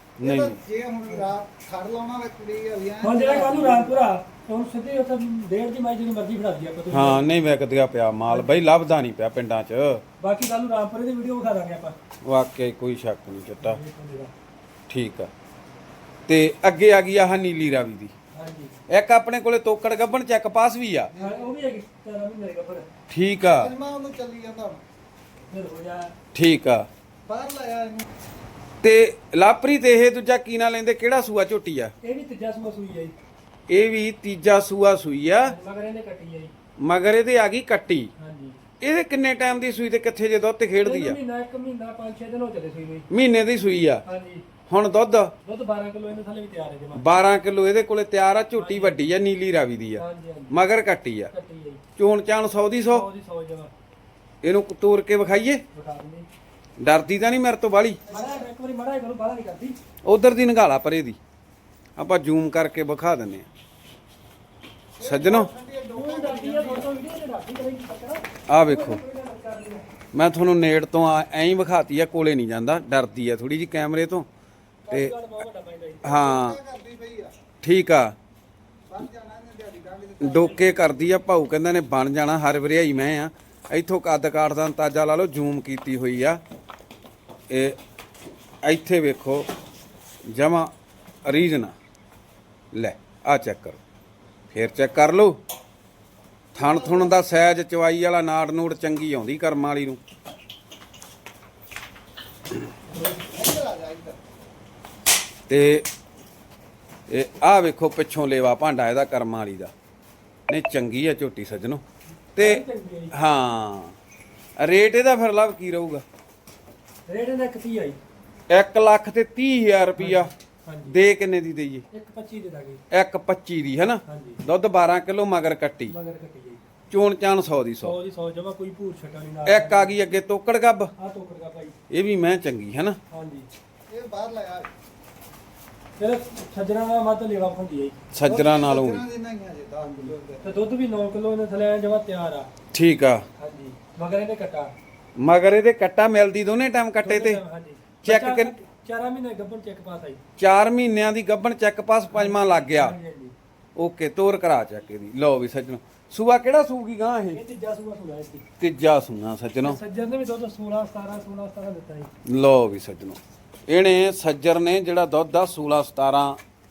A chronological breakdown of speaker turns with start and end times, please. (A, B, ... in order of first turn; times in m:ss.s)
0:00.2-0:00.6 A
0:00.2-0:04.0 B
0:03.0-0:07.3 C
0:06.9-0:10.0 A
0:10.2-0:12.0 C
0:12.2-0:13.8 A
0:13.6-0:14.3 C
0:14.9-0:15.3 A
0:16.3-0:18.1 A
0:18.3-0:18.7 C
0:18.9-0:21.1 A
0:21.1-0:21.5 B
0:21.2-0:22.9 C
0:23.1-0:23.7 A
0:23.5-0:24.8 B
0:25.5-0:26.1 C
0:26.3-0:26.9 A
0:27.3-0:28.1 B
0:28.8-0:31.9 A
0:32.0-0:33.2 C
0:33.7-0:35.6 A
0:35.4-0:36.5 C
0:36.8-0:38.1 A
0:38.2-0:38.6 C
0:38.8-0:41.2 A
0:40.8-0:43.1 C
0:43.1-0:44.0 A
0:44.0-0:44.5 C
0:44.7-0:45.3 A
0:45.4-0:47.1 C
0:46.9-0:51.3 A
0:48.6-0:49.0 C
0:50.0-0:50.6 C
0:51.3-0:51.8 C
0:52.0-0:53.1 A
0:52.9-0:53.7 C
0:54.4-0:55.6 A
0:55.7-0:56.3 C
0:56.8-0:58.0 A
0:58.1-0:58.5 B
0:58.1-0:59.8 C
1:00.0-1:01.2 A
1:02.0-1:03.5 A
1:05.0-1:07.0 B
1:05.0-1:05.5 A
1:05.9-1:09.9 C
1:08.5-1:09.0 A
1:10.1-1:14.3 A
1:14.9-1:16.2 C
1:14.9-1:15.2 A
1:16.0-1:16.6 A
1:16.1-1:17.4 B
1:17.6-1:18.2 A
1:18.9-1:20.9 B
1:20.2-1:26.4 A
1:27.5-1:27.8 A
1:28.6-1:29.5 A
1:30.3-1:30.7 A
1:31.2-1:31.8 A
1:32.7-1:33.8 A
1:34.5-1:35.4 A
1:36.5-1:40.0 A
1:36.6-1:37.2 B
1:43.2-1:44.2 B
1:45.5-1:45.9 A
1:47.1-1:49.7 A
1:50.5-1:51.8 A
1:52.3-1:53.1 C
1:52.4-1:54.0 A
1:54.6-1:56.0 A
1:57.1-1:58.0 C
1:58.5-2:00.3 A
2:00.0-2:01.0 C
2:00.9-2:01.8 A
2:01.9-2:02.8 C
2:02.9-2:05.9 A
2:04.1-2:04.4 C
2:05.9-2:06.6 C
2:06.9-2:08.0 A
2:07.8-2:10.0 C
2:09.5-2:10.9 A
2:11.0-2:11.8 C
2:11.9-2:13.0 A
2:13.1-2:13.5 C
2:13.9-2:14.7 B
2:16.0-2:18.0 C
2:18.1-2:19.0 A
2:18.3-2:20.7 B
2:20.0-2:22.5 C
2:22.7-2:23.3 A
2:23.4-2:24.7 C
2:25.2-2:27.4 A
2:27.0-2:30.2 C
2:28.0-2:28.5 A
2:30.4-2:33.0 A
2:32.1-2:33.3 C
2:33.8-2:37.4 A
2:37.3-2:38.4 C
2:38.6-2:39.8 A
2:39.6-2:42.1 C
2:42.2-2:46.4 A